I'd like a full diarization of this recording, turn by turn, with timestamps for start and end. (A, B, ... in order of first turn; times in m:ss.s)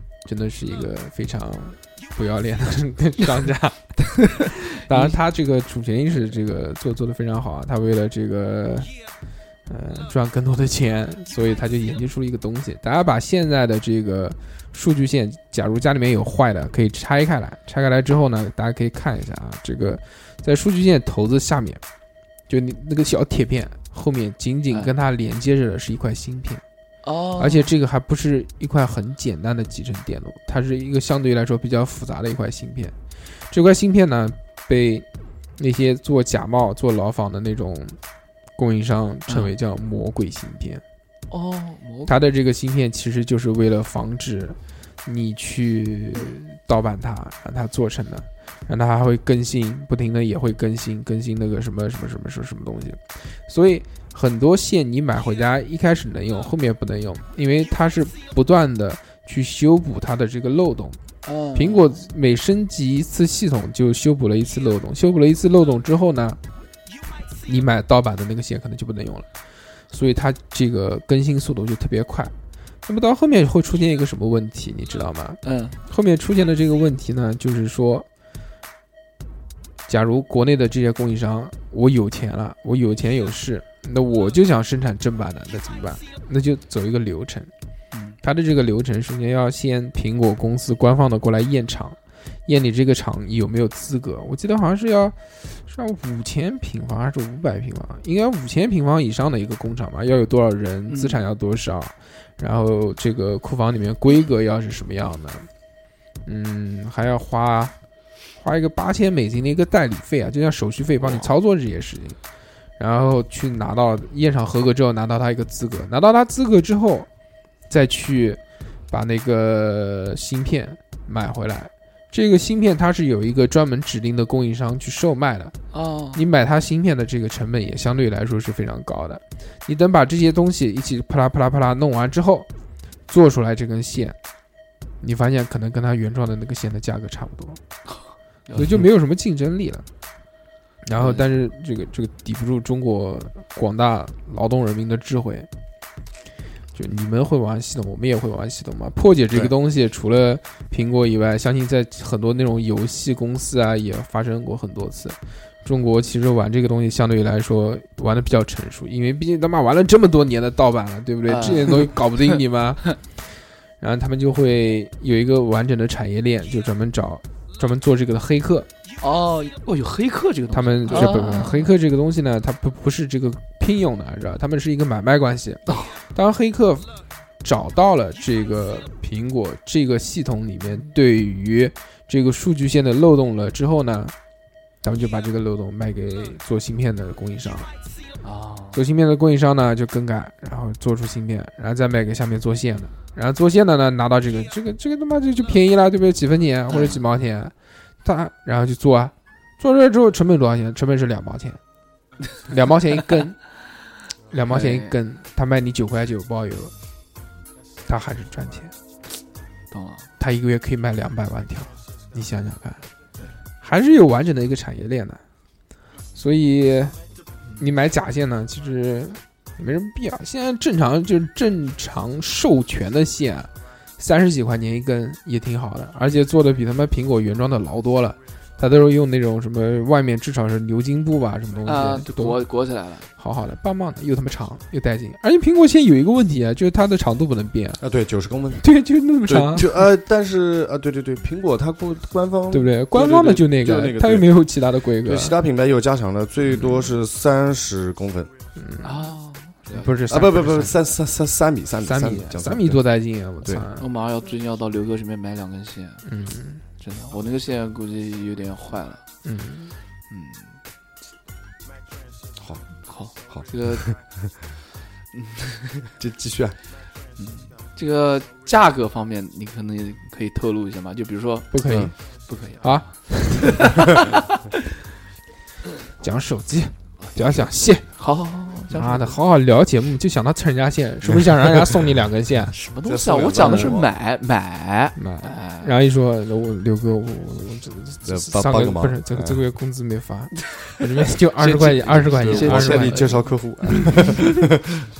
0:00.2-0:08.9 A
0:04.9-0:05.1 B
0:09.7-0:21.8 A
0:22.5-0:26.6 A
0:27.0-0:27.7 B
0:27.4-0:33.0 A
0:33.5-0:35.1 A
0:35.6-0:38.0 A
0:38.6-0:40.8 A
0:39.3-0:39.5 B
0:41.3-0:42.2 B
0:42.1-1:01.0 A
1:01.2-1:02.0 B
1:01.6-1:06.4 A
1:07.4-1:09.3 A
1:09.9-1:12.3 A
1:12.9-1:18.1 A
1:15.4-1:15.8 B
1:19.9-1:27.5 A
1:27.9-1:28.2 B
1:28.2-1:45.5 A
1:40.9-1:41.2 B
1:46.3-1:47.7 A
1:48.3-1:52.2 A
1:51.0-1:51.3 B
1:52.8-1:57.1 A
1:57.7-2:05.6 A
2:05.7-2:06.2 B
2:06.2-2:12.5 A
2:13.1-2:14.2 A
2:15.0-2:17.6 A
2:18.5-2:18.8 B
2:18.6-2:19.9 A
2:20.8-2:25.5 A
2:21.0-2:21.2 B
2:26.7-2:43.0 A
2:41.3-2:42.0 B
2:43.8-2:48.7 A
2:49.0-2:51.7 B
2:50.5-2:56.9 A
2:55.7-2:55.9 B
2:57.4-3:04.2 A
3:04.8-3:07.7 A
3:08.2-3:08.8 B
3:08.7-3:21.6 A
3:16.7-3:17.0 B
3:22.5-3:23.4 A
3:24.3-3:26.7 A
3:24.5-3:25.0 B
3:27.9-3:28.7 A
3:29.7-3:30.1 B
3:30.2-3:32.8 A
3:33.6-3:35.2 A
3:36.2-3:37.0 A
3:37.6-3:52.4 A
3:51.6-3:53.1 B
3:53.2-3:57.8 A
3:57.8-3:58.6 C
3:58.6-3:59.8 A
3:59.2-4:04.5 C
4:02.5-4:05.4 A
4:05.0-4:08.3 C
4:08.6-4:09.1 A
4:08.8-4:09.9 B
4:09.7-4:10.7 A
4:10.1-4:12.8 C
4:11.8-4:13.9 A
4:13.8-4:16.0 B
4:16.1-4:16.6 A
4:16.8-4:19.0 B
4:19.2-4:19.7 A
4:20.1-4:20.6 B
4:22.4-4:22.6 C
4:22.9-4:23.9 B
4:23.3-4:24.0 C
4:25.1-4:25.8 B
4:26.0-4:26.6 C
4:27.2-4:31.6 B
4:31.5-4:31.9 A
4:31.7-4:31.9 C
4:32.3-4:34.2 B
4:32.6-4:33.7 A
4:36.0-4:37.8 A
4:37.0-4:39.2 B
4:38.7-4:42.6 A
4:41.0-4:41.7 C
4:42.5-4:45.8 B
4:42.8-4:43.9 C
4:43.4-4:43.8 A
4:45.0-4:53.1 A
4:48.0-4:49.4 C
4:51.4-4:53.3 B
4:52.2-4:54.7 C
4:53.9-4:54.3 B